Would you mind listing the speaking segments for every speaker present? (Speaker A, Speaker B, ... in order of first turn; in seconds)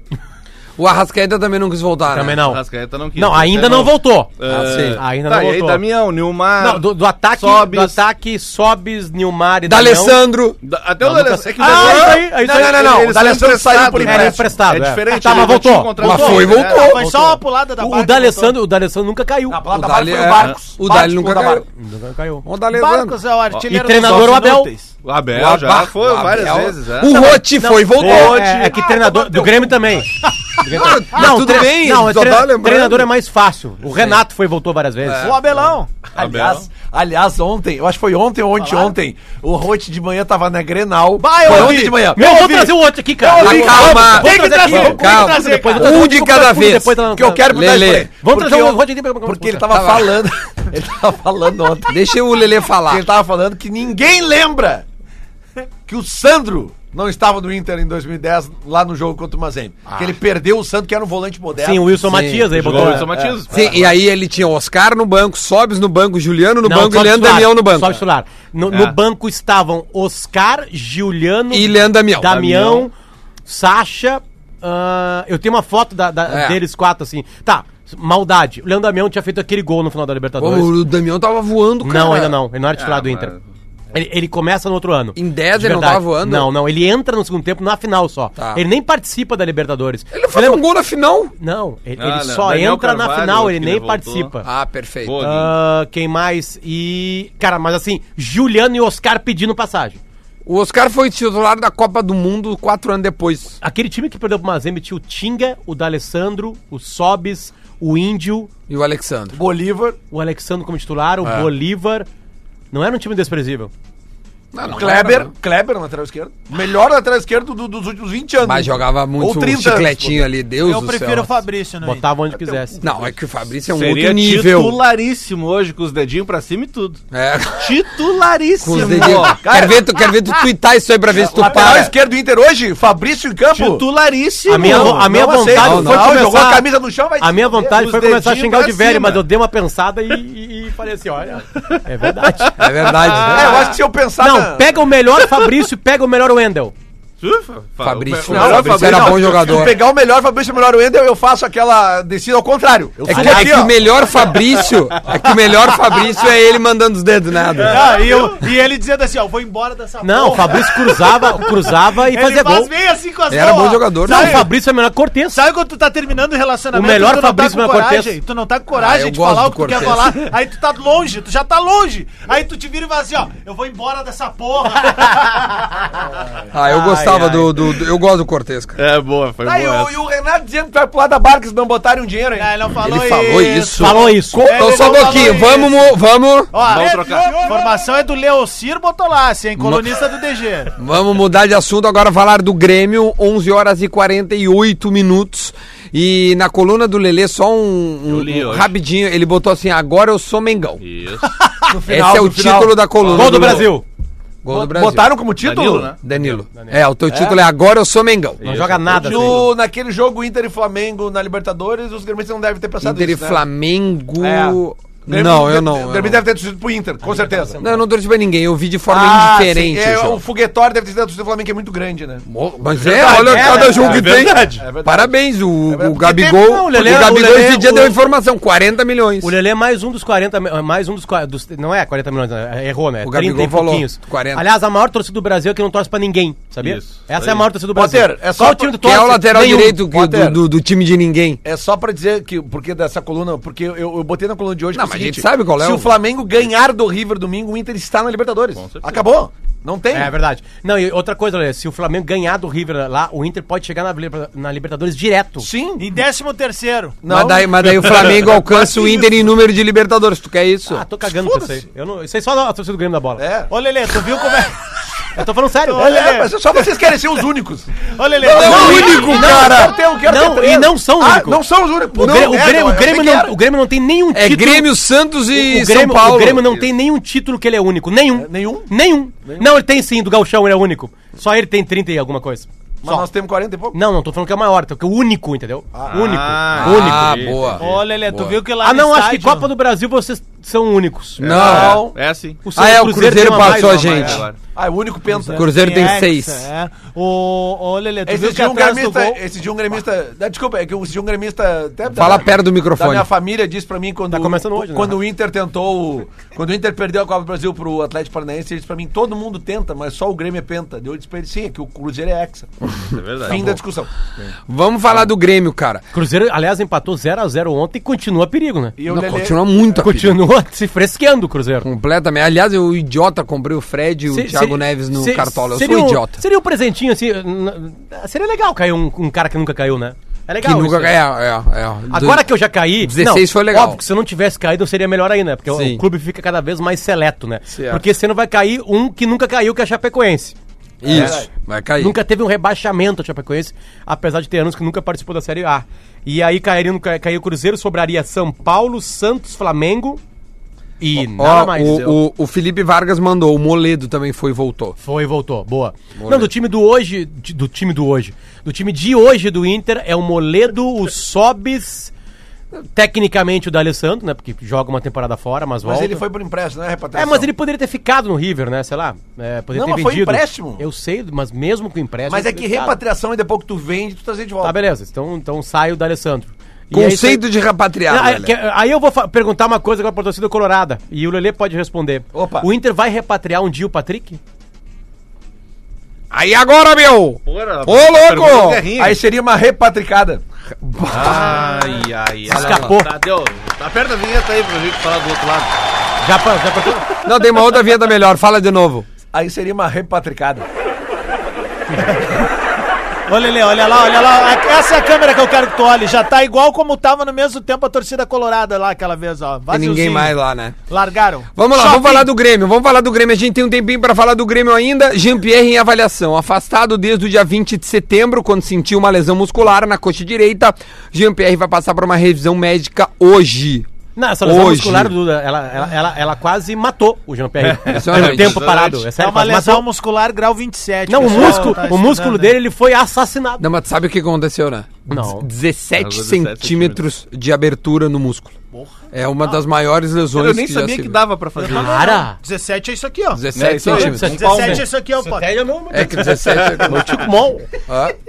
Speaker A: 0.8-2.4, 4.5-5.0, 9.7-10.6, 16.0-17.0, 19.7-21.6, 22.4-23.2, 25.3-28.4, 30.7-33.1, 35.0-35.4, 41.5-41.8, 43.4-48.1, 49.7-50.1, 51.9-53.0, 62.0-62.5, 63.5-68.0, 71.5-72.6, 76.3-76.6, 80.4-82.4, 85.2-86.5, 88.3-88.6, 90.1-91.3, 94.4-95.2, 100.5-103.5, 108.7-109.4, 111.2-111.5, 114.5-115.3, 118.4-121.4, 122.8-124.8, 127.1-127.8, 128.6-131.9, 135.5-136.2, 142.6-143.7, 147.8-149.7, 153.0-158.0, 163.3-164.4, 168.7-170.2, 176.5-178.8, 182.8-186.5, 189.6-189.8, 190.8-200.8, 201.9-203.8, 204.4-205.2, 206.0-208.4, 212.8-216.2, 217.6-220.2, 222.2-229.3, 233.0-234.4, 238.8-241.4, 244.7-245.9, 257.1-260.8, 268.3-269.7, 272.1-272.3, 274.1-276.5, 286.6-288.3, 291.2-291.9, 292.5-294.2, 295.3-296.5, 301.9-303.1, 314.5-315.8, 318.9-320.2, 321.6-326.2, 330.4-332.3, 332.8-333.8, 335.5-335.8, 337.5-337.8, 340.8-341.9, 351.0-354.8, 356.0-356.3, 376.7-378.3, 386.1-388.7, 390.6-391.4, 392.3-392.7, 397.0-398.9, 409.5-410.6, 411.3-423.6, 424.2-424.9, 427.7-428.5, 433.4-438.3, 438.9-441.0, 443.1-444.2, 445.7-446.9, 447.7-447.9
Speaker B: 2.1-2.6, 3.1-4.3, 4.9-5.8, 6.6-10.2, 11.0-13.1, 14.0-19.6, 21.8-22.4, 23.7-24.7, 27.3-35.3, 41.6-49.7, 61.5-63.1, 66.6-72.9, 73.5-80.8, 81.8-83.3, 83.9-90.6, 91.4-94.5, 95.2-100.0, 103.6-108.5, 110.1-112.1, 112.7-113.7, 121.8-122.8, 134.5-136.7, 137.2-143.4, 144.2-146.7, 153.1-153.5, 160.0-162.7, 164.0-165.4, 166.7-168.1, 176.6-177.6, 183.8-184.7, 203.1-203.8, 206.5-206.8, 208.4-209.4, 217.0-217.8, 223.2-223.9, 226.1-228.0, 229.2-239.5, 249.9-255.5, 260.7-263.2, 265.1-265.8, 268.4-271.4, 271.9-274.7, 275.3-283.1, 283.7-287.2, 288.6-291.2, 292.4-294.2, 304.1-305.0, 315.9-318.8, 319.8-321.7, 324.1-331.0, 331.9-340.4, 340.9-341.2, 341.8-350.0, 350.8-352.0, 354.8-361.9, 362.7-366.0, 366.9-372.8, 374.4-377.3, 377.9-384.2, 392.3-392.9, 396.0-397.0, 423.9-429.6, 430.9-433.4, 434.9-435.3, 441.4-442.2, 443.6-447.5
Speaker C: 2.4-8.0, 10.6-16.9, 23.5-24.4, 25.0-27.4, 28.0-29.5, 36.1-36.7, 62.5-63.9, 68.7-69.0, 72.4-72.8, 82.8-83.4, 92.0-94.3, 95.0-95.5, 123.6-127.0, 127.6-129.4, 133.5-135.1, 137.7-139.2, 142.6-143.7, 147.2-149.7, 157.6-158.3, 178.8-179.9, 186.5-187.6, 198.1-198.7, 200.8-201.3, 203.1-203.5, 205.4-206.2, 208.4-209.5, 222.8-224.7, 236.6-237.5, 248.5-249.0, 285.9-287.8, 291.2-292.4, 293.3-294.4, 312.9-313.6, 387.2-389.0, 390.9-395.5, 427.4-428.9, 431.0-431.7, 435.7-436.9, 440.1-441.9, 443.3-444.7, 446.3-447.0
Speaker D: 11.6-14.5, 19.5-21.6, 36.1-42.4, 43.5-44.2, 47.1-52.0, 52.9-54.8, 55.9-63.4, 109.3-110.0, 114.6-120.3, 122.5-123.1, 128.8-129.9, 131.1-133.9, 134.5-139.1, 143.3-144.7, 148.2-153.8, 179.4-183.0, 184.3-185.6, 201.7-203.6, 204.5-205.9, 207.1-207.4, 208.9-213.4, 214.2-217.6, 218.9-222.2, 222.8-226.4, 237.7-240.4, 241.4-250.1, 255.4-256.0, 257.0-259.2, 261.2-261.6, 263.2-263.5, 265.8-273.3, 278.1-278.7, 282.8-283.8, 285.7-286.2, 291.2-292.0, 294.4-295.5, 298.1-312.5, 313.3-313.9, 318.8-319.8, 340.8-341.3, 365.6-367.3, 369.5-370.6, 372.1-374.6, 382.1-382.5, 388.7-390.2, 399.1-400.4
Speaker E: 16.7-18.6, 22.7-25.0, 28.8-29.6, 30.3-31.4, 35.2-35.9, 38.6-38.9, 41.2-46.1, 120.6-122.2, 157.6-164.5, 165.3-175.9, 182.3-186.0, 186.5-190.8, 255.8-257.0, 263.5-264.6, 265.7-266.4, 267.9-269.6, 287.6-289.5, 295.4-299.2, 391.1-391.7, 401.9-402.2, 403.1-412.1, 429.0-432.4, 441.4-443.2, 444.1-445.3